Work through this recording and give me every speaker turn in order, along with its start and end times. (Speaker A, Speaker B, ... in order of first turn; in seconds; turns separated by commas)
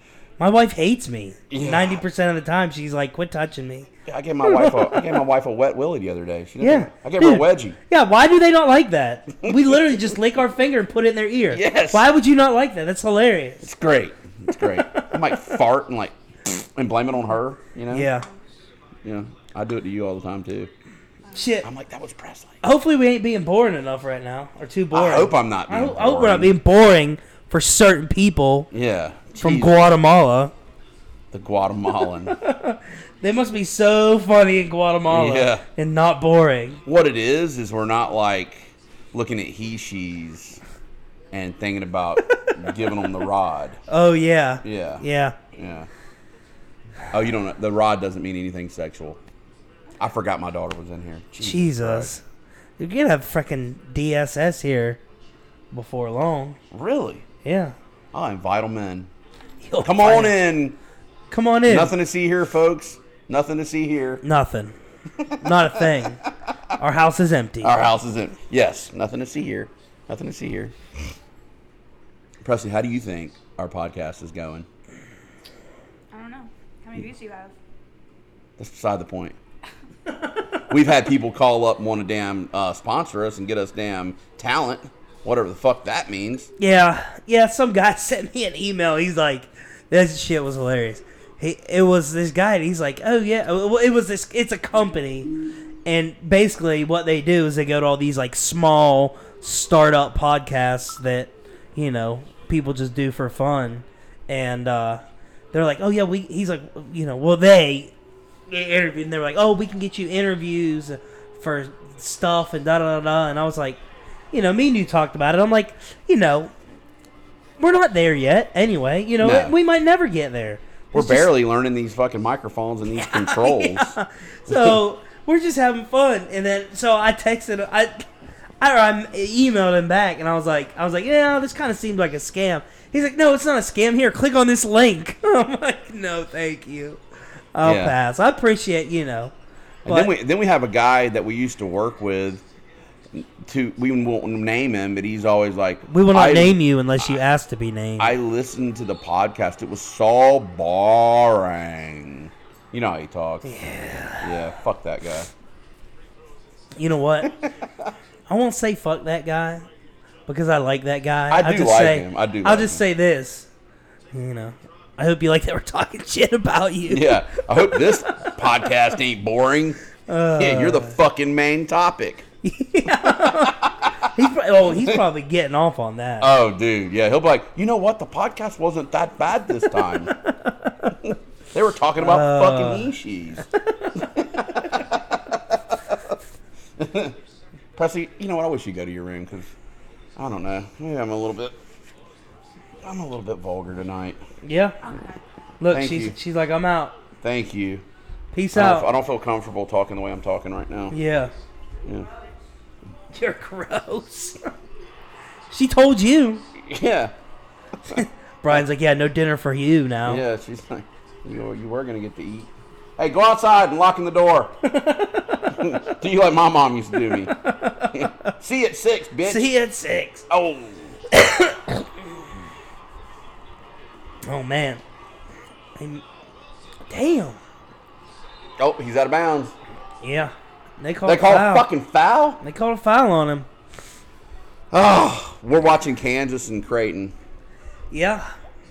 Speaker A: 0.4-3.9, Speaker B: 1.5-2.0, Speaker B: 4.1-7.8, Speaker A: 4.4-5.2, Speaker A: 6.6-13.7, Speaker B: 9.4-10.2, Speaker B: 11.5-12.1, Speaker B: 13.6-18.1, Speaker A: 14.6-15.6, Speaker A: 17.9-18.3, Speaker B: 19.0-20.7, Speaker C: 21.2-21.6, Speaker A: 21.4-21.7, Speaker B: 21.6-22.6, Speaker A: 22.6-28.7, Speaker B: 24.9-26.6, Speaker B: 28.7-29.8, Speaker A: 29.4-30.5, Speaker B: 31.3-32.4, Speaker A: 32.3-36.8, Speaker B: 35.1-35.6, Speaker B: 36.9-40.6, Speaker B: 41.3-43.8, Speaker A: 42.3-42.7, Speaker A: 43.9-45.4, Speaker B: 44.6-45.9, Speaker B: 47.1-49.2, Speaker B: 50.0-52.1, Speaker A: 51.4-52.2, Speaker A: 52.8-55.0, Speaker A: 55.7-56.6, Speaker B: 56.7-57.2, Speaker A: 57.4-57.8, Speaker B: 58.1-59.1, Speaker A: 59.6-60.4, Speaker B: 59.8-60.8, Speaker A: 61.3-61.9, Speaker B: 61.7-64.2, Speaker A: 64.2-64.8, Speaker B: 65.2-66.5, Speaker A: 65.4-66.2, Speaker A: 66.8-67.8, Speaker B: 67.6-71.1, Speaker B: 72.4-74.7, Speaker C: 76.1-77.5, Speaker B: 78.6-79.4, Speaker B: 80.7-86.5, Speaker A: 86.6-95.3, Speaker A: 95.8-105.0, Speaker A: 105.5-107.9, Speaker A: 108.5-113.8, Speaker A: 114.3-116.5, Speaker A: 117.6-121.3, Speaker B: 119.2-119.5, Speaker B: 120.9-124.8, Speaker A: 122.9-128.1, Speaker A: 128.6-137.0, Speaker A: 137.6-139.3, Speaker B: 137.6-138.0, Speaker A: 139.9-140.1, Speaker B: 139.9-142.4, Speaker B: 143.1-147.2, Speaker A: 145.9-148.2, Speaker B: 148.0-153.6, Speaker A: 153.4-154.5, Speaker B: 154.2-155.3, Speaker A: 156.8-157.4, Speaker B: 157.3-157.9, Speaker A: 158.3-159.7, Speaker A: 160.3-163.5, Speaker B: 161.3-162.8, Speaker A: 164.1-168.3, Speaker B: 166.9-169.8, Speaker A: 170.1-171.0, Speaker B: 170.4-172.3, Speaker A: 172.4-176.3, Speaker B: 172.9-175.0, Speaker B: 176.2-180.1, Speaker A: 180.1-180.9, Speaker B: 181.0-186.2, Speaker A: 182.0-182.9, Speaker B: 186.8-187.2, Speaker B: 187.8-189.5, Speaker B: 190.2-191.6, Speaker B: 192.8-194.2, Speaker A: 194.4-194.8, Speaker C: 194.8-195.2, Speaker A: 195.6-197.0, Speaker B: 195.7-196.2, Speaker B: 197.2-197.8, Speaker A: 198.3-198.9, Speaker B: 198.5-201.0, Speaker A: 200.9-201.3, Speaker A: 203.1-204.5, Speaker A: 205.5-206.4, Speaker B: 206.6-207.1, Speaker A: 207.9-210.2, Speaker B: 210.1-214.6, Speaker A: 214.6-215.6, Speaker B: 215.5-217.3, Speaker A: 217.2-218.3, Speaker B: 217.9-219.5, Speaker A: 219.2-220.3, Speaker B: 220.3-221.0, Speaker A: 221.1-221.9, Speaker A: 224.2-224.8, Speaker A: 225.8-226.0, Speaker A: 226.9-227.4, Speaker B: 228.6-229.5, Speaker A: 230.0-231.7, Speaker B: 231.1-232.4, Speaker A: 232.4-233.5, Speaker B: 234.7-237.1, Speaker A: 237.9-238.3